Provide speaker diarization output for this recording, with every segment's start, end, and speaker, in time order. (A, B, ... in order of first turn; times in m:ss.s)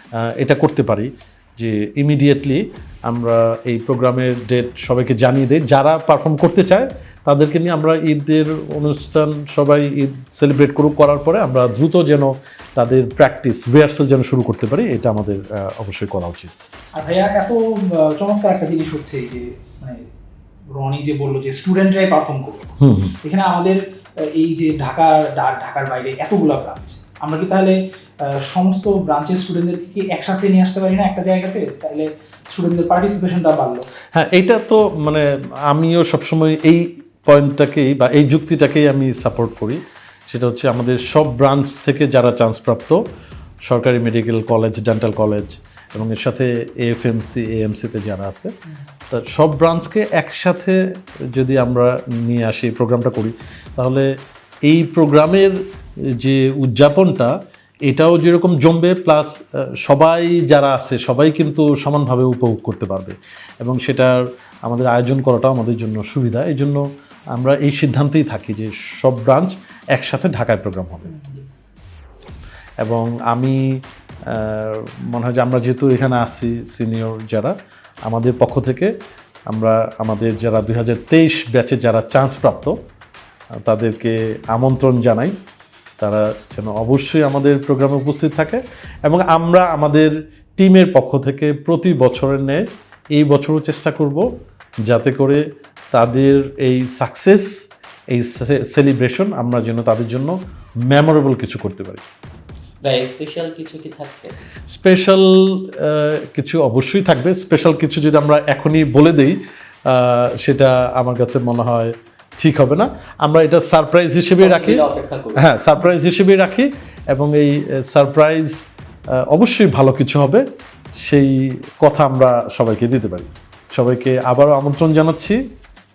0:00.2-0:16.5 A
0:17.0-0:20.0 B
0:20.7-0:22.7 B
0:22.8-0:23.2 A
0:23.2-0:23.8 B
0:24.4-0:27.8 B
0:28.5-0:33.8 B
0:34.1-0:43.0 A
0:43.7-0:48.5 A
0:49.1-0:50.8 A
0:51.3-0:54.1 A
0:54.7-0:55.5 A
0:56.2-0:57.3 A
0:57.9-0:59.3 A
0:59.8-1:06.8 A
1:07.4-1:11.1 A
1:11.1-1:11.5 B
1:12.8-1:13.6 A
1:14.3-1:17.5 A
1:18.1-1:18.9 A
1:19.5-1:22.8 A
1:23.6-1:25.3 A
1:26.0-1:32.6 A
1:33.2-1:34.2 A
1:34.9-1:37.5 A
1:38.1-1:40.4 A
1:40.9-1:42.0 A
1:42.8-1:44.3 C
1:44.7-1:49.4 A
1:49.9-1:54.8 A
1:54.4-1:55.4 C
1:55.4-1:58.5 A
1:59.2-2:00.4 A
2:01.0-2:05.4 A